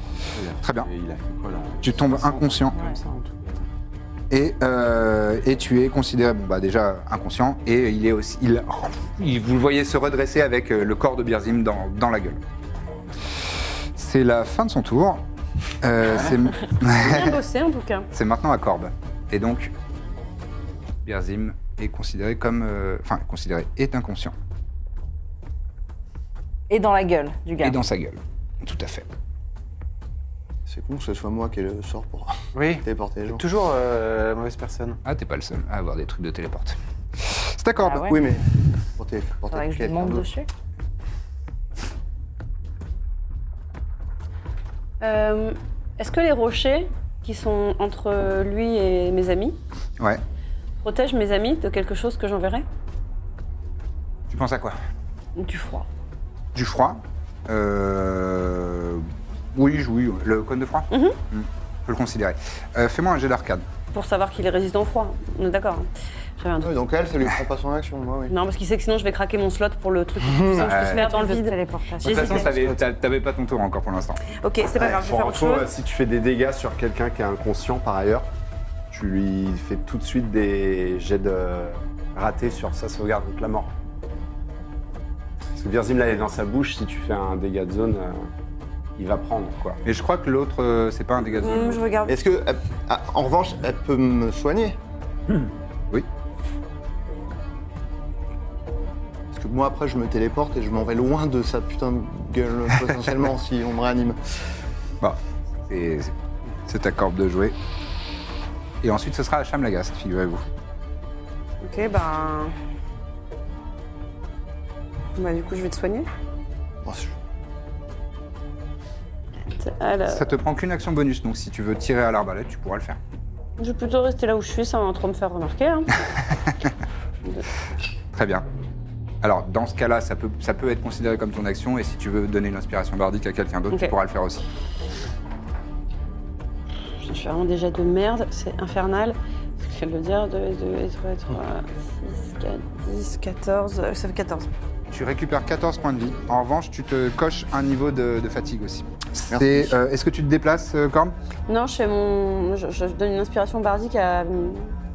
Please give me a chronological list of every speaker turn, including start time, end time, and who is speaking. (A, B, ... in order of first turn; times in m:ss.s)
0:00.3-0:03.6 A
0:00.6-0:00.9 B
0:01.8-0:02.8 B
0:04.3-0:12.4 B
0:14.0-0:15.2 B
0:15.8-0:17.4 B
0:16.8-0:18.1 C
0:18.1-0:19.7 B
0:21.0-0:24.3 B
0:26.7-0:27.8 D
0:27.6-0:29.0 B
0:30.6-0:33.4 E
0:32.5-0:35.0 F
0:35.0-0:38.1 B
0:37.8-0:38.2 D
0:38.1-0:40.3 E
0:39.5-0:40.5 D
0:45.0-0:49.6 C
0:50.8-0:52.6 C
0:54.3-0:54.8 B
0:55.4-0:55.9 C
0:56.5-1:03.6 B
1:00.9-1:01.2 C
1:03.9-1:06.7 C
1:06.6-1:08.3 E
1:08.3-1:11.6 C
1:10.3-1:10.6 E
1:10.6-1:11.0 B
1:10.7-1:12.5 D
1:12.0-1:14.2 B
1:12.2-1:12.8 F
1:14.3-1:15.7 C
1:14.8-1:18.3 A
1:18.9-1:23.7 A
1:25.6-1:28.3 A
1:29.0-1:29.8 A
1:29.8-1:31.8 B
1:31.3-1:32.2 C
1:32.1-1:34.8 E
1:39.3-1:44.2 E
1:45.0-1:46.1 B
1:46.7-1:47.5 B
1:48.8-1:50.4 B
1:51.6-1:52.5 C
1:55.2-1:56.1 C
1:56.8-1:57.2 E
1:59.6-2:00.3 C
2:00.1-2:03.0 B
2:03.6-2:06.0 C
2:08.1-2:08.4 B
2:09.2-2:14.4 B
2:17.0-2:24.5 C
2:24.9-2:31.1 B
2:29.3-2:29.8 E
2:31.5-2:34.7 C